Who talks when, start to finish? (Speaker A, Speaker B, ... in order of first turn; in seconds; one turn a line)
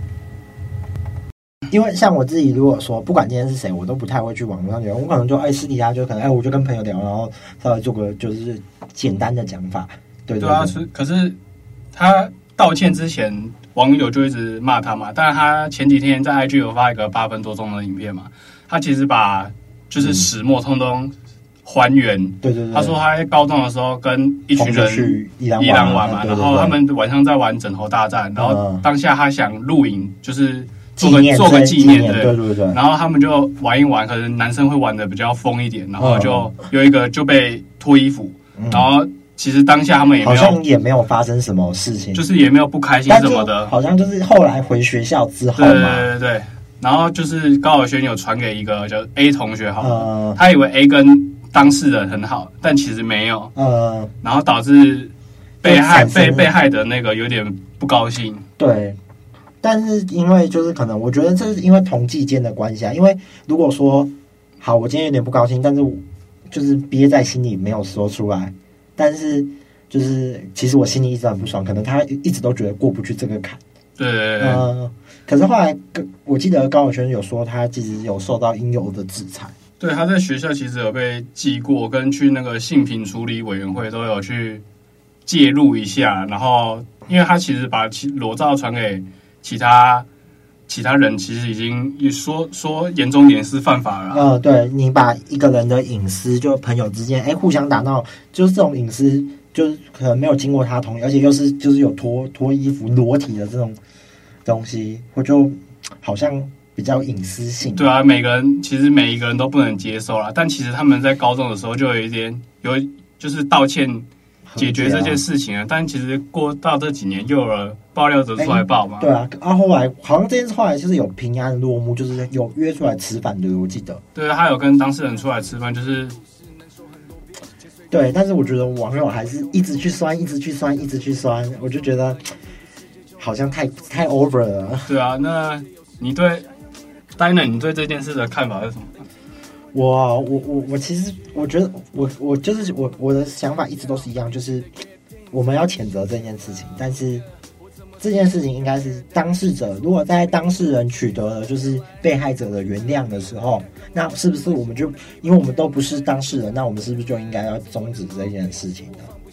Speaker A: 1.7-10.7
Speaker B: 10.4-11.4
Speaker B: 11.9-40.6
Speaker A: 20.0-20.3
Speaker A: 22.4-22.9
Speaker A: 24.5-26.8
Speaker A: 28.4-28.8
Speaker A: 31.0-32.8
Speaker A: 36.0-36.5
Speaker A: 38.5-38.9
Speaker A: 40.2-42.2
Speaker B: 42.1-43.7
Speaker A: 43.1-46.1
Speaker B: 45.6-53.5
Speaker A: 49.8-50.4
Speaker A: 53.5-54.1
Speaker B: 54.2-58.4
Speaker A: 55.6-56.5
Speaker A: 58.6-59.0
Speaker A: 59.6-73.6
Speaker B: 74.0-74.7
Speaker A: 74.4-79.5
Speaker B: 79.8-84.6
Speaker B: 85.2-90.0
Speaker B: 90.7-94.3
Speaker A: 94.1-103.8
Speaker A: 104.4-107.9
Speaker B: 107.8-119.1
Speaker A: 114.5-115.2
Speaker A: 118.4-124.0
Speaker B: 124.1-126.2
Speaker A: 127.9-132.3
Speaker A: 133.2-134.9
Speaker B: 134.8-136.5
Speaker B: 137.2-138.9
Speaker A: 139.7-144.7
Speaker A: 145.3-147.2
Speaker A: 148.0-159.1